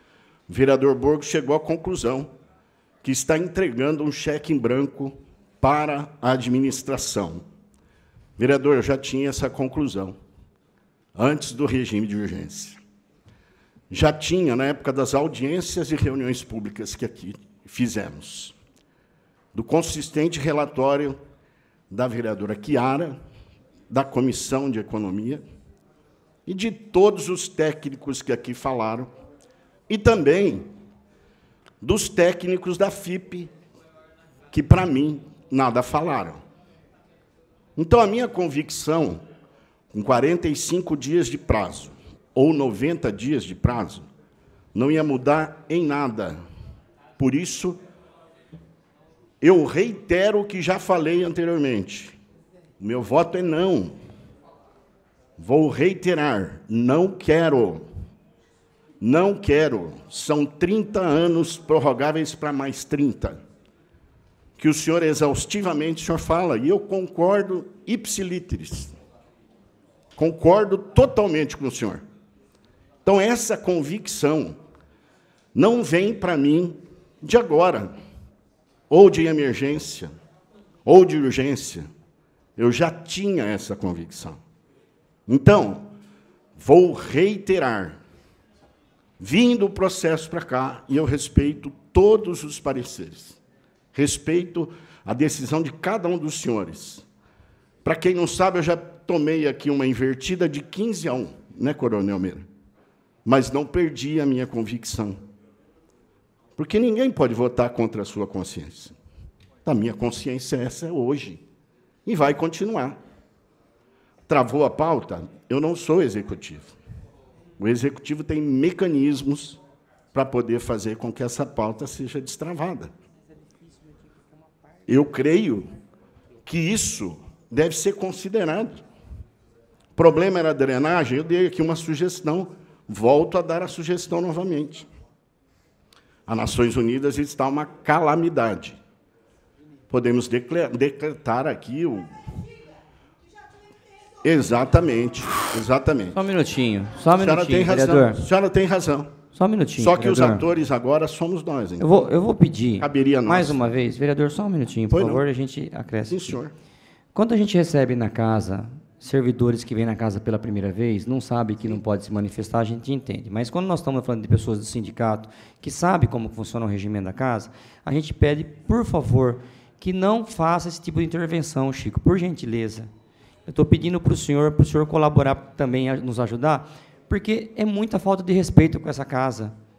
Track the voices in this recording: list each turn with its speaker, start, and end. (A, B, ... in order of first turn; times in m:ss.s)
0:00.5-0:02.3 A
0:03.0-0:07.4 A
0:08.4-0:10.2 A
0:11.1-0:12.8 A
0:13.9-0:18.6 A
0:19.5-0:21.2 A
0:21.9-0:23.2 A
0:23.9-0:25.4 A
0:26.4-0:29.1 A
0:29.9-0:30.8 A
0:31.8-0:33.5 A
0:34.5-0:36.4 A
0:37.8-0:39.2 A
0:39.9-0:44.1 A
0:44.7-0:46.4 A
0:47.2-0:47.8 A
0:49.4-0:52.2 A
0:52.8-0:54.0 A
0:55.4-0:57.9 A
0:59.0-1:03.4 A
1:04.6-1:09.0 A
1:10.2-1:12.0 A
1:13.0-1:14.6 A
1:15.5-1:18.0 A
1:18.9-1:20.1 A
1:20.8-1:21.9 A
1:22.6-1:24.4 A
1:25.3-1:25.9 A
1:26.6-1:28.0 A
1:29.2-1:33.4 A
1:33.9-1:37.0 A
1:37.8-1:42.5 A
1:43.2-1:45.2 A
1:46.6-1:49.0 A
1:49.6-1:51.4 A
1:52.0-1:53.0 A
1:54.3-1:56.8 A
1:57.6-1:59.6 A
2:00.1-2:02.9 A
2:04.9-2:05.7 A
2:06.4-2:08.8 A
2:10.0-2:14.9 A
2:16.3-2:18.8 A
2:19.9-2:22.4 A
2:24.2-2:26.2 A
2:26.1-2:28.2 B
2:27.1-2:29.2 A
2:29.3-2:30.5 B
2:29.8-2:32.0 A
2:31.8-2:36.4 B
2:32.8-2:33.7 A
2:34.9-2:35.2 A
2:36.1-2:36.5 A
2:37.1-2:52.9 B
2:53.4-2:59.6 B